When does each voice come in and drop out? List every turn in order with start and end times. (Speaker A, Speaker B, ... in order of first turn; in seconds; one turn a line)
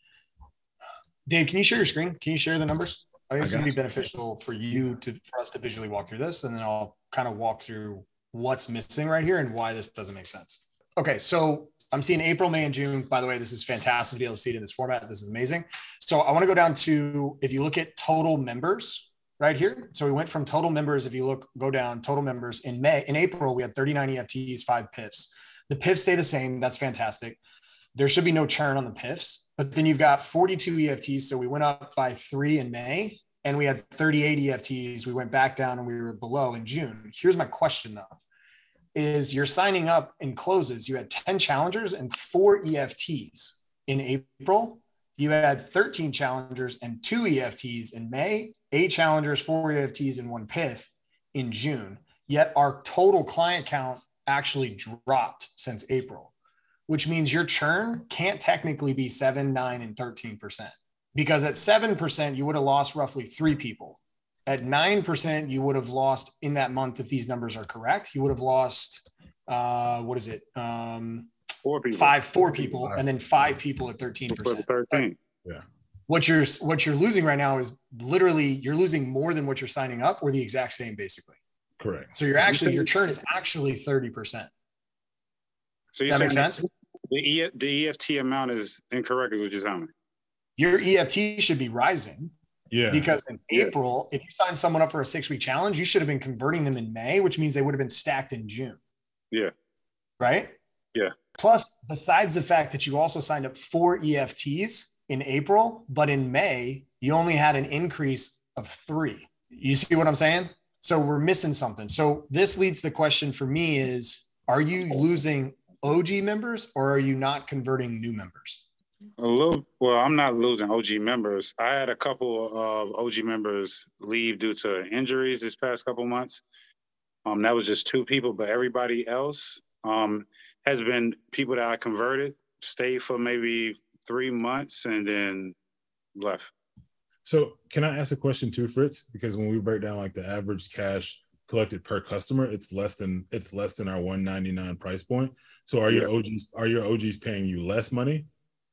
Speaker A: 1.2-27.4
Speaker B: 3.4-3.7
Speaker A: 27.9-38.1
Speaker A: 38.9-56.3
Speaker A: 56.9-71.3
Speaker C: 71.6-72.2
Speaker A: 71.9-75.0
Speaker C: 74.3-75.2
Speaker A: 76.1-81.4
Speaker B: 81.8-82.1
Speaker A: 82.1-84.5
Speaker C: 82.5-82.8
Speaker C: 85.9-89.9
Speaker A: 86.1-86.6
Speaker A: 90.6-92.3
Speaker B: 92.7-93.1
Speaker A: 92.9-98.8
Speaker A: 100.2-100.5
Speaker A: 101.3-118.6
Speaker C: 119.2-126.4
Speaker C: 127.2-135.5
Speaker C: 136.1-136.5
Speaker B: 137.2-148.3